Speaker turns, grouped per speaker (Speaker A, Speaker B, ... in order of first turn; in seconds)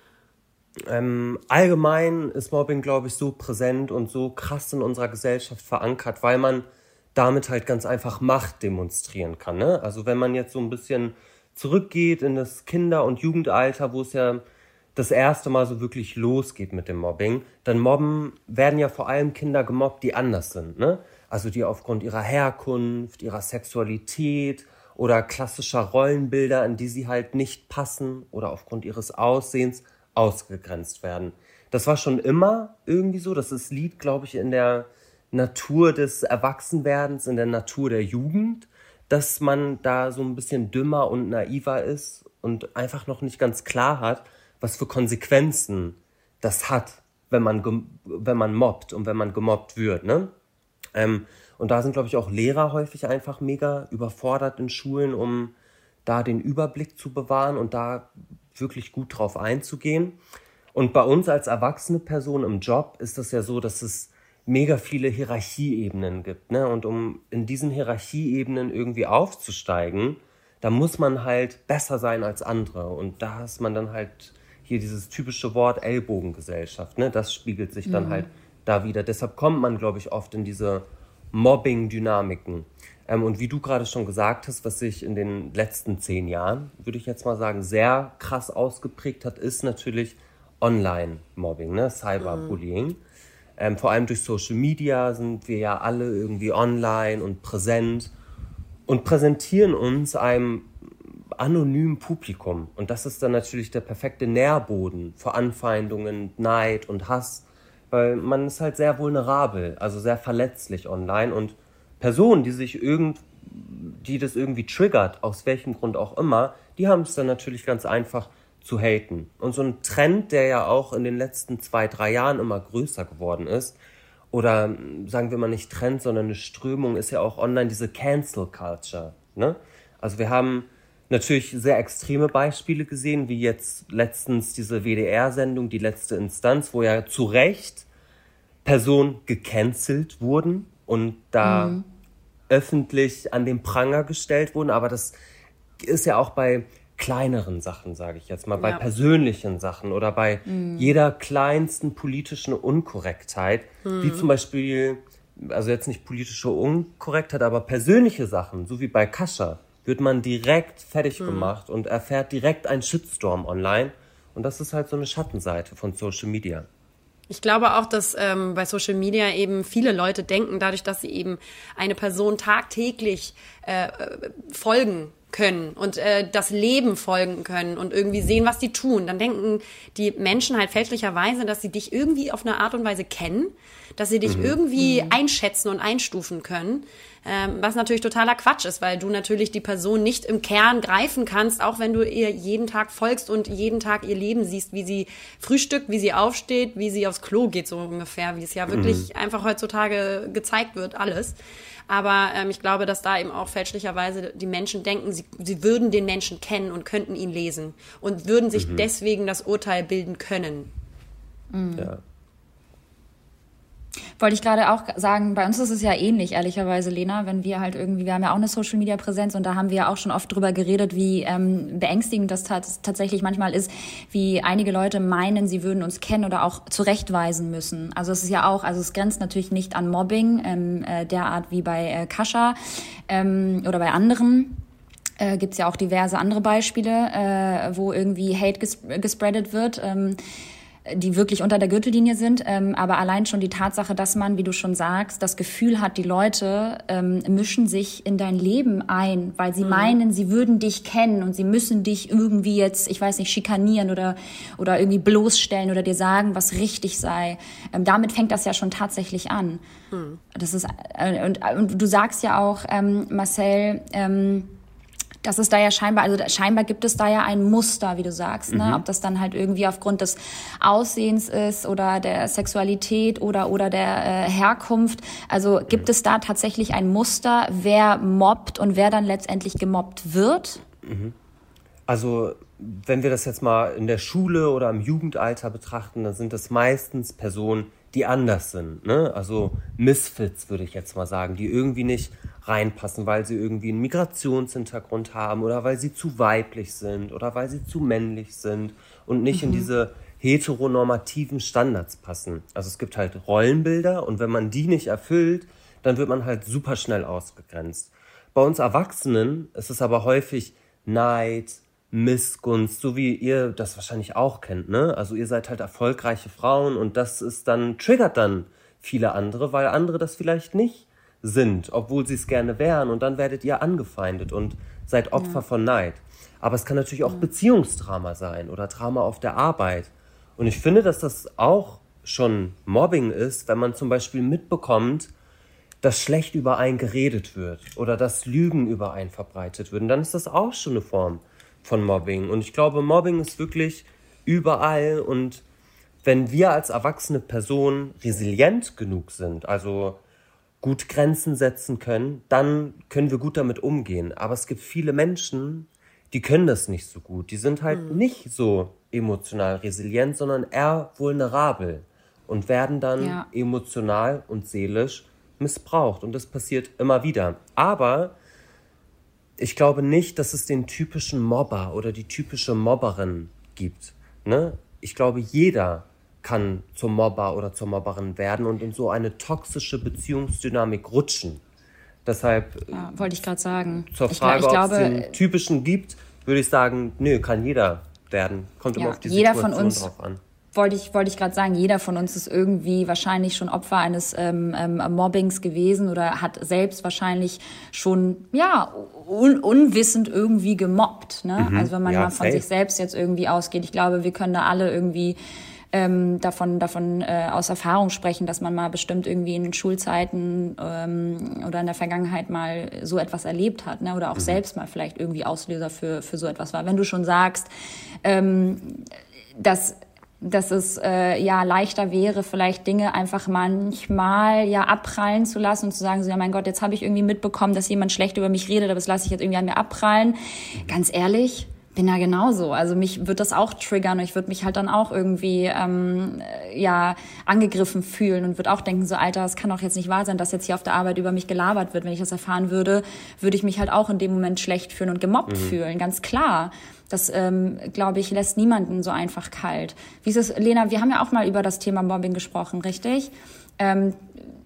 Speaker A: 0.8-14.4, 14.9-50.3, 50.9-55.5, 56.0-60.2, 60.7-93.0, 93.6-98.1, 98.9-123.8, 124.3-137.8, 138.6-141.8, 142.5-145.1, 145.8-166.7, 184.2-184.6, 198.7-199.1, 208.6-208.9, 268.5-268.8, 280.8-281.1, 281.9-335.1, 335.8-345.4, 346.0-350.0, 350.6-368.1, 369.4-381.4, 382.0-382.9, 383.9-390.2, 401.4-402.4, 445.3-445.6
Speaker B: 77.9-78.3, 141.4-141.8, 150.5-150.9, 184.8-185.2, 211.5-211.9, 214.2-234.6, 235.2-240.2, 240.8-259.6, 260.3-264.6, 265.2-280.6, 299.3-299.7, 325.1-325.4, 363.0-363.3, 382.7-385.1, 388.8-389.9, 390.5-405.2, 405.7-417.5, 418.0-454.1
Speaker C: 92.2-92.6, 148.6-148.8, 153.8-154.3, 161.2-161.5, 167.3-201.4, 201.9-210.7, 249.6-249.9, 259.9-260.2, 357.7-358.0